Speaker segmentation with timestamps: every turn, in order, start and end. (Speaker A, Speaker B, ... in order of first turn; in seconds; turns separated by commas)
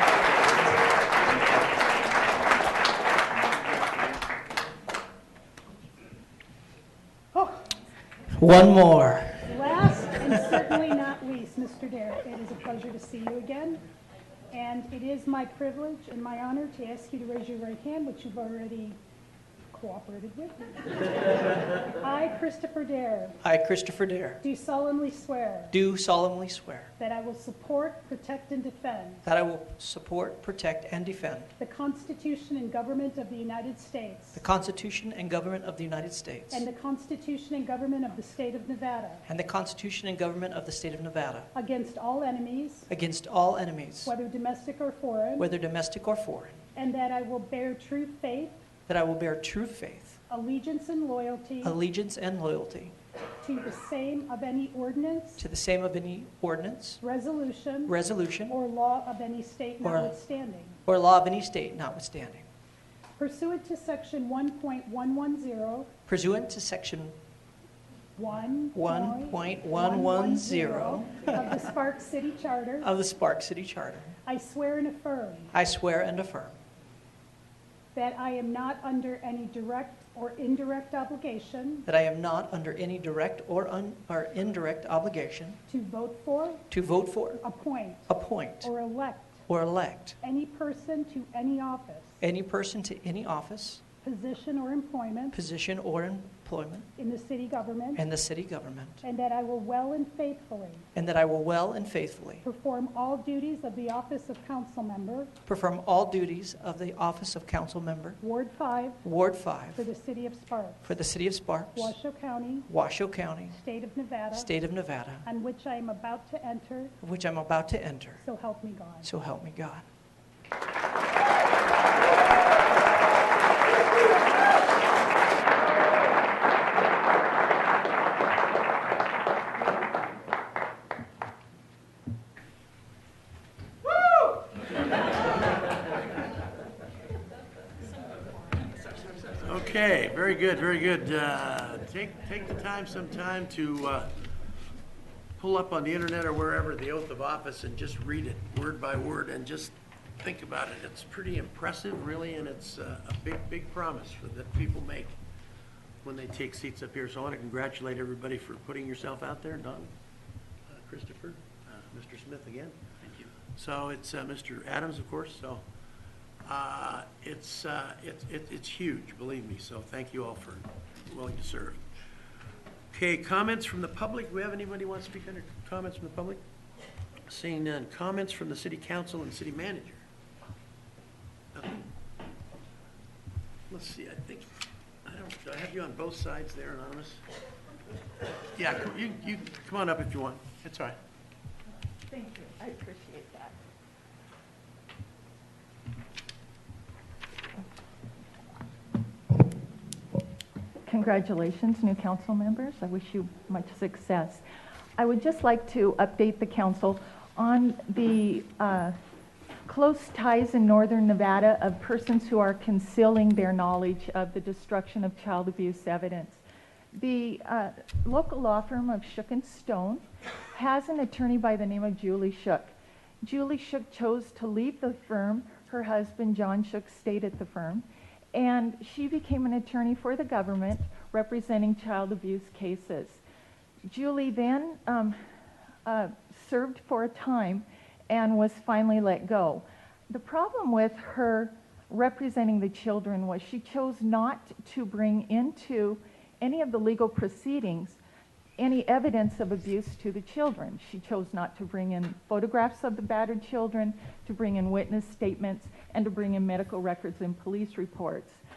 Speaker A: 7.3-7.7, Speaker B: 8.4-9.6, Speaker A: 9.5-13.8, Speaker A: 14.5-19.0, Speaker A: 19.7-20.6, Speaker A: 22.0-23.4, Speaker B: 23.4-24.4, Speaker A: 24.4-25.8, Speaker B: 25.7-26.9, Speaker A: 27.0-29.2, Speaker B: 29.2-31.5, Speaker A: 31.6-34.4, Speaker B: 34.4-36.7, Speaker A: 36.5-39.2, Speaker B: 39.2-41.5, Speaker A: 41.5-42.9, Speaker B: 42.9-44.1, Speaker A: 44.0-45.5, Speaker B: 45.4-46.6, Speaker A: 46.8-48.6, Speaker B: 48.9-50.2, Speaker A: 50.3-51.8, Speaker B: 51.6-52.9, Speaker A: 53.4-55.5, Speaker B: 55.4-57.0, Speaker A: 57.0-58.0, Speaker B: 57.9-58.6, Speaker A: 58.5-60.8, Speaker B: 59.8-60.1, Speaker B: 60.9-62.5, Speaker A: 63.2-65.9, Speaker B: 66.1-67.2, Speaker A: 68.2-72.9, Speaker B: 68.7-71.6, Speaker B: 72.8-74.2, Speaker A: 74.3-75.5, Speaker B: 75.5-76.6, Speaker A: 78.0-81.8, Speaker B: 81.9-85.6, Speaker A: 85.7-86.7, Speaker B: 86.7-87.4, Speaker A: 87.4-88.1, Speaker B: 88.1-88.7, Speaker A: 88.6-89.5, Speaker B: 89.5-90.2, Speaker A: 90.2-92.2, Speaker B: 92.2-93.8, Speaker A: 94.0-95.4, Speaker B: 95.3-96.9, Speaker A: 97.0-98.0, Speaker B: 98.0-99.0, Speaker A: 99.0-100.9, Speaker B: 101.0-102.5, Speaker A: 102.4-105.3, Speaker B: 105.5-108.2, Speaker A: 108.2-109.0, Speaker B: 109.0-109.8, Speaker A: 109.7-111.0, Speaker B: 110.8-112.0, Speaker A: 111.7-112.7, Speaker B: 112.7-113.6, Speaker A: 113.5-114.5, Speaker B: 114.3-115.3, Speaker A: 115.2-116.9, Speaker B: 117.0-118.2, Speaker A: 118.2-119.1, Speaker B: 119.0-119.8, Speaker C: 139.4-144.1, Speaker C: 145.4-155.2, Speaker C: 156.0-159.9, Speaker C: 160.7-165.6, Speaker C: 166.4-171.8, Speaker C: 172.9-176.4, Speaker C: 177.3-180.0, Speaker C: 181.5-181.9, Speaker C: 183.7-184.5, Speaker C: 185.1-187.2, Speaker C: 188.6-191.0, Speaker D: 192.1-193.6, Speaker D: 200.9-204.4, Speaker D: 205.0-209.0, Speaker D: 209.7-216.4, Speaker D: 216.9-233.2, Speaker D: 233.9-235.2, Speaker D: 235.8-248.0, Speaker D: 248.6-258.4